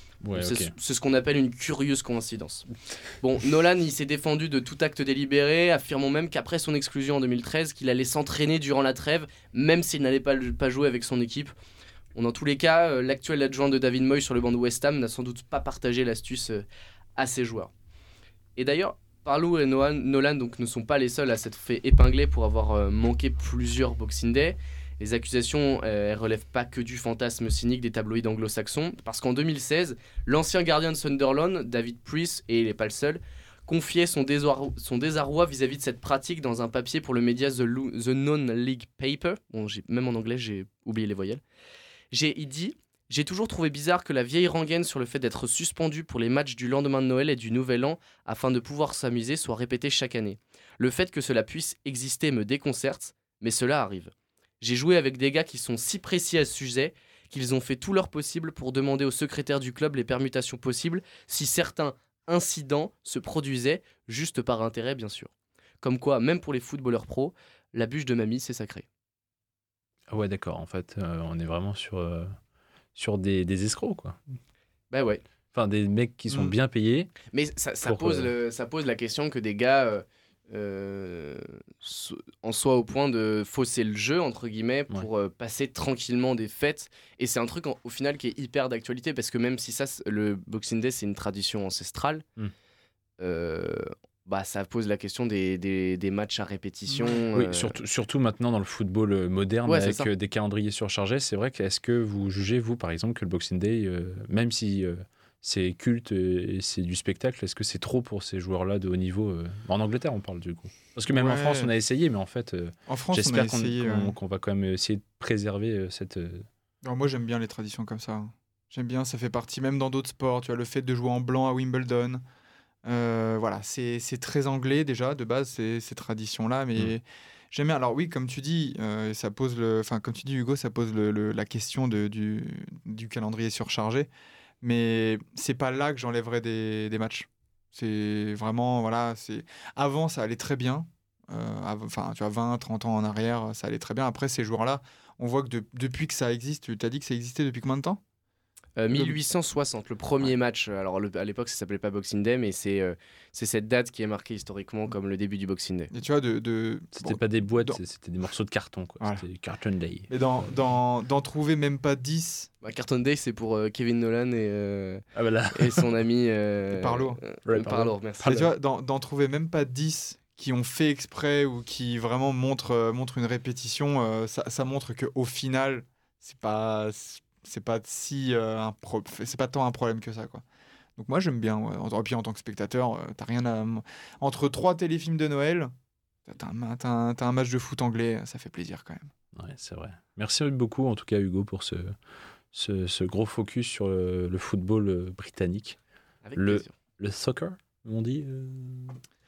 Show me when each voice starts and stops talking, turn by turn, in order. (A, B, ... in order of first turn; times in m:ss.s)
0:00.2-0:00.7 A
0:00.3-0:02.7 B
0:03.2-0:11.5 B
0:12.2-0:16.7 B
0:17.2-0:17.7 B
0:18.6-0:41.4 B
0:42.1-1:08.8 B
1:10.1-1:12.3 A
1:13.0-1:14.2 A
1:14.9-1:15.2 B
1:15.5-1:17.1 A
1:17.3-1:32.2 B
1:17.8-1:18.3 A
1:33.2-1:37.8 B
1:36.9-1:37.2 C
1:37.3-1:56.5 A
1:39.7-1:40.1 B
1:51.1-1:51.7 C
1:52.9-1:54.2 C
1:56.8-2:02.2 C
2:02.8-2:14.1 C
2:14.6-2:28.0 C
2:28.8-2:35.9 B
2:28.9-2:29.2 C
2:35.9-2:37.8 C
2:36.9-2:40.5 A
2:39.0-2:39.2 C
2:40.1-2:42.5 C
2:42.6-2:48.5 B
2:45.2-2:45.9 A
2:46.7-2:47.2 C
2:47.4-2:47.9 A
2:48.2-3:00.4 C
3:01.0-3:05.7 C
3:06.3-3:09.1 C
3:09.4-3:12.0 A
3:12.5-3:15.8 A
3:16.2-3:16.7 B
3:16.4-3:19.0 A